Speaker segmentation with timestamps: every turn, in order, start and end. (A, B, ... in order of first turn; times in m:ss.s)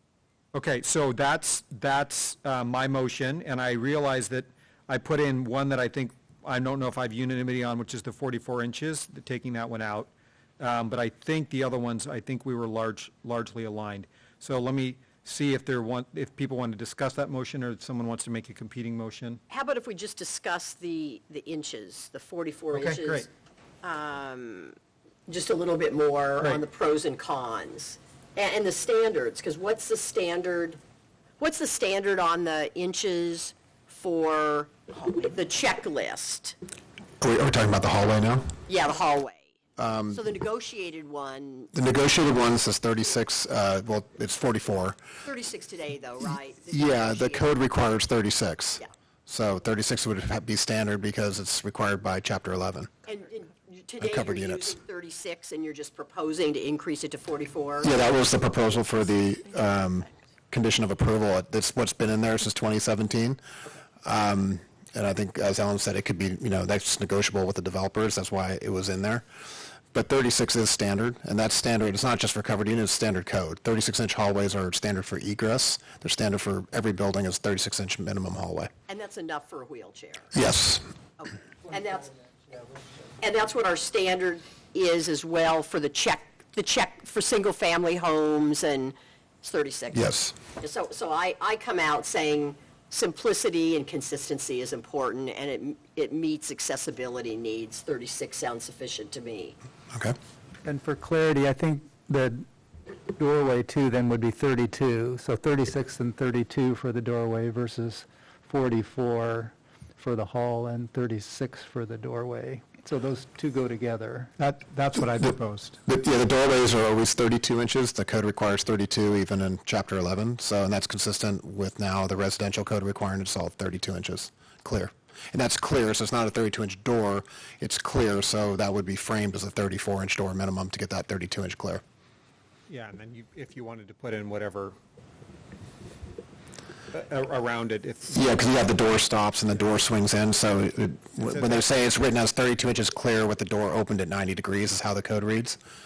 0:00.5-0:19.4 A
0:19.5-0:23.3 B
0:22.7-0:23.3 A
0:23.8-0:24.7 B
0:25.3-0:30.8 B
0:31.4-0:36.6 B
0:37.2-0:38.5 C
0:38.7-0:39.5 B
0:39.8-0:40.2 C
0:40.1-0:41.7 B
0:41.7-0:45.0 C
0:45.2-0:47.5 B
0:46.7-0:52.9 C
0:53.0-0:57.9 B
0:54.0-0:54.8 C
0:57.8-1:03.4 C
1:04.0-1:09.2 C
1:09.9-1:18.7 C
1:18.9-1:20.3 B
1:20.3-1:20.8 C
1:21.2-1:22.1 B
1:23.2-1:39.5 B
1:29.9-1:30.4 C
1:40.6-1:42.4 D
1:43.2-1:54.3 D
1:54.4-1:55.8 A
1:55.9-2:11.8 C
2:12.7-2:14.7 A
2:16.9-2:18.4 A
2:18.1-2:25.6 C
2:21.2-2:21.6 A